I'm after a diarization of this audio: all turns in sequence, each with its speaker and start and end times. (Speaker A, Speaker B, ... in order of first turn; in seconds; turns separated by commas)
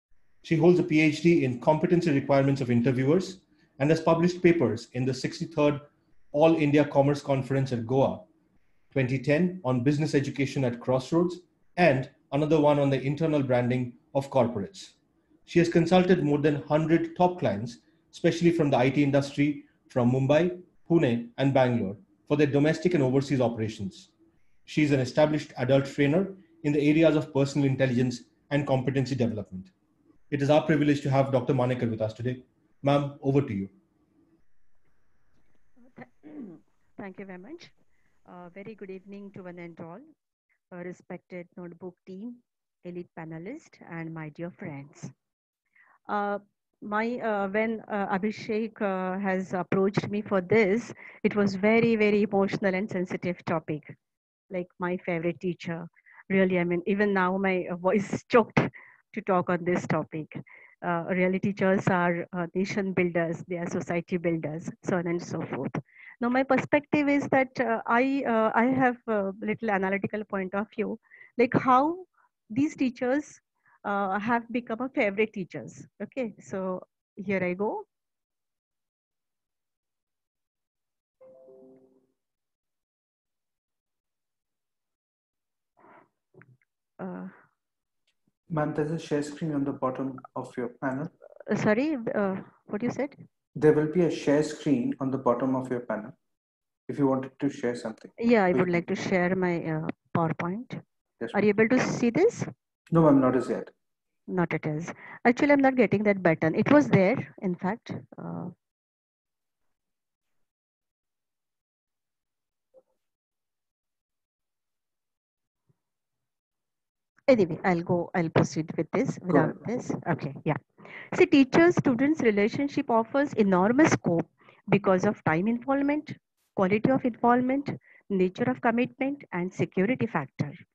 Speaker A: 0.4-8.2, Speaker A: 8.9-14.9, Speaker A: 15.4-24.1, Speaker A: 24.7-29.7, Speaker A: 30.3-33.7, Speaker B: 36.0-37.7, Speaker B: 38.3-40.0, Speaker B: 40.7-45.1, Speaker B: 46.1-53.9, Speaker B: 54.5-77.8, Speaker B: 87.0-87.3, Speaker C: 88.5-91.1, Speaker B: 91.5-93.2, Speaker C: 93.6-96.2, Speaker C: 96.9-98.7, Speaker B: 98.2-100.8, Speaker B: 101.3-102.5, Speaker C: 102.9-103.7, Speaker B: 104.3-108.5, Speaker B: 117.3-120.6, Speaker B: 121.1-130.6